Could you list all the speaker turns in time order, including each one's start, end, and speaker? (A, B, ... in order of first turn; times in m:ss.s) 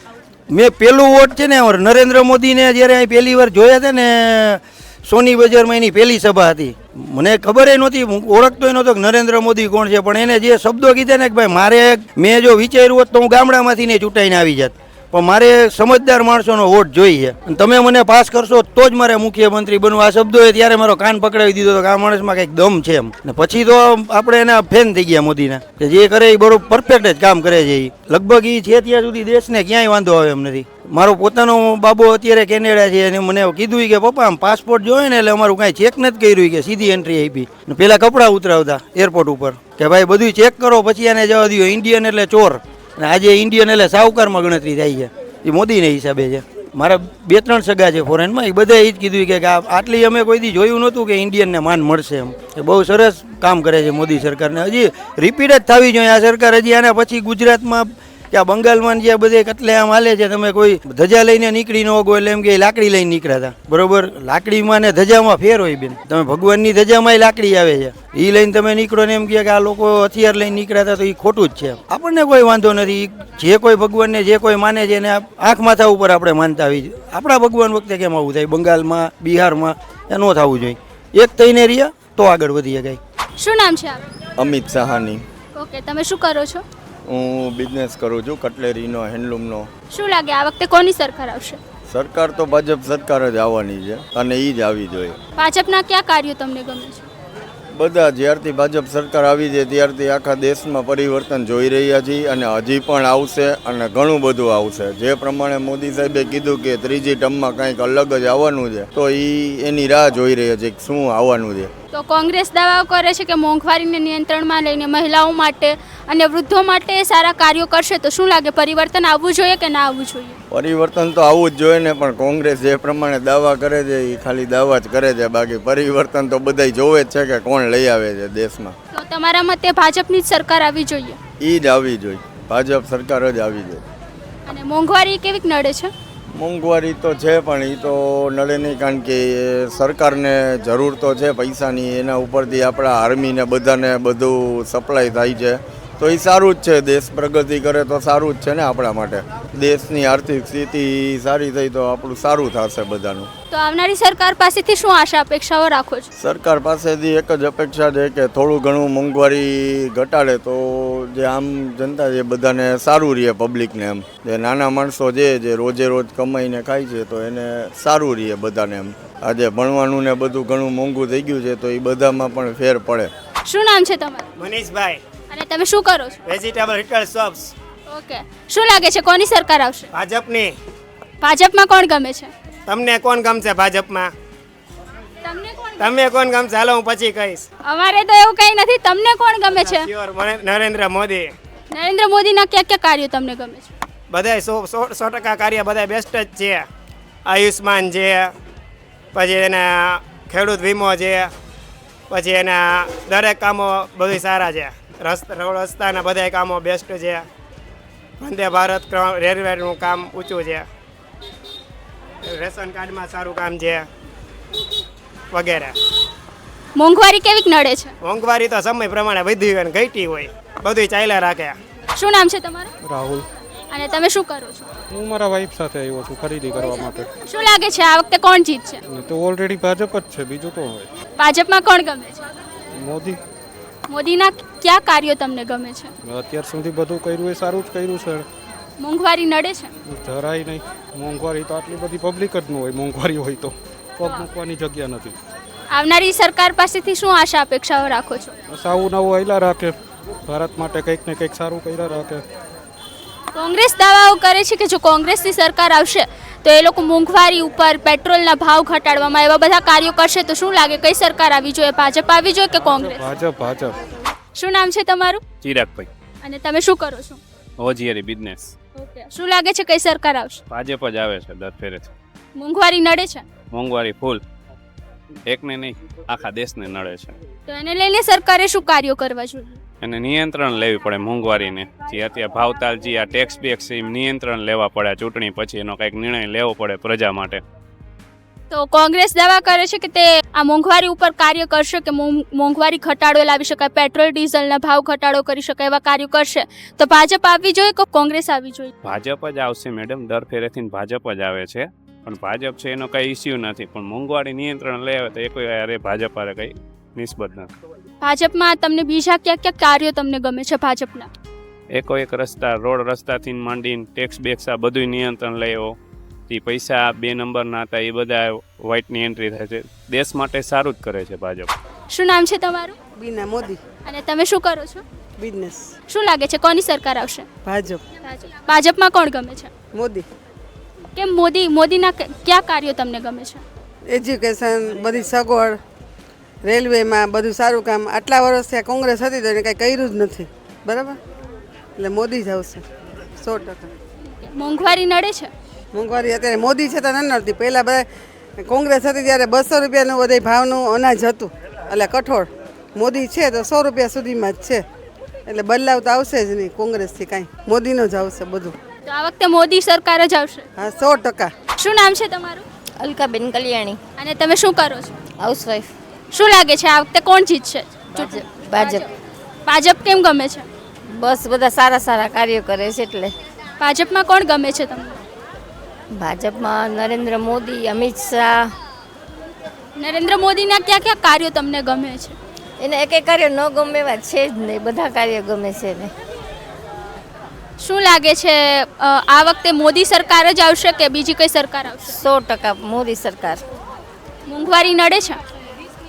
0:00.5-1:23.0 A
1:23.4-1:24.0 B
1:24.4-1:25.2 C
1:25.6-1:26.6 B
1:27.0-1:29.7 C
1:29.9-1:31.6 B
1:31.9-1:35.2 C
1:35.4-1:37.0 B
1:37.7-1:51.7 C
1:51.9-2:00.4 B
2:00.5-2:08.8 C
2:08.9-2:11.2 B
2:11.4-2:13.8 C
2:14.4-2:15.9 B
2:16.3-2:33.3 C
2:33.5-2:36.1 B
2:36.2-2:53.1 C
2:53.4-2:54.3 B
2:54.4-2:55.0 D
2:55.3-2:56.2 B
2:56.2-2:57.5 D
2:57.9-2:59.9 B
2:59.9-3:00.5 D
3:01.2-3:02.3 B
3:02.7-3:04.1 D
3:05.2-3:05.9 B
3:05.8-3:07.5 D
3:07.6-3:09.9 B
3:09.5-3:11.3 D
3:11.7-3:13.7 B
3:14.1-3:16.7 D
3:17.2-3:18.3 D
3:19.1-3:21.3 D
3:22.1-3:27.2 D
3:28.2-3:30.7 D
3:32.2-3:33.9 D
3:35.3-3:35.8 D
3:36.8-3:37.9 B
3:38.0-3:41.6 D
3:42.0-3:42.7 B
3:42.8-3:43.2 E
3:43.7-3:44.7 B
3:44.9-3:47.1 E
3:47.3-3:48.8 B
3:48.9-3:50.9 E
3:51.2-3:52.2 B
3:52.8-3:53.2 E
3:53.9-3:55.9 B
3:56.0-3:58.2 E
3:58.8-3:59.7 B
3:59.8-4:05.2 E
4:05.7-4:08.3 B
4:08.5-4:12.2 E
4:13.3-4:23.1 B
4:22.8-4:23.8 E
4:24.4-4:25.2 B
4:25.4-4:25.9 F
4:26.2-4:27.2 B
4:27.6-4:28.5 F
4:28.8-4:30.4 B
4:30.5-4:31.9 F
4:32.4-4:33.3 B
4:33.5-4:34.2 F
4:35.3-4:37.2 F
4:37.5-4:39.6 B
4:39.8-4:47.4 F
4:48.5-4:58.7 B
4:58.8-5:07.5 F
5:08.0-5:11.1 B
5:11.7-5:15.8 F
5:16.3-5:21.5 F
5:21.9-5:22.8 B
5:23.0-5:23.6 G
5:23.8-5:24.8 B
5:25.2-5:25.6 G
5:25.9-5:27.2 B
5:27.4-5:27.8 G
5:28.0-5:29.5 B
5:29.7-5:30.0 G
5:30.9-5:33.4 B
5:33.9-5:35.6 G
5:36.4-5:41.0 G
5:41.8-5:42.6 G
5:43.2-5:43.7 G
5:44.1-5:45.3 B
5:45.7-5:47.8 G
5:48.4-5:54.6 G
5:55.3-5:58.5 G
5:58.9-6:00.4 B
6:00.6-6:01.3 G
6:01.6-6:02.4 B
6:02.8-6:03.8 H
6:04.0-6:04.9 B
6:05.2-6:05.7 H
6:06.1-6:08.9 B
6:07.9-6:08.8 H
6:09.5-6:10.5 B
6:10.9-6:13.1 H
6:13.6-6:15.0 B
6:15.9-6:18.5 H
6:19.8-6:22.2 B
6:22.6-6:25.9 H
6:27.6-6:32.0 B
6:31.9-6:33.4 H
6:34.3-6:35.2 B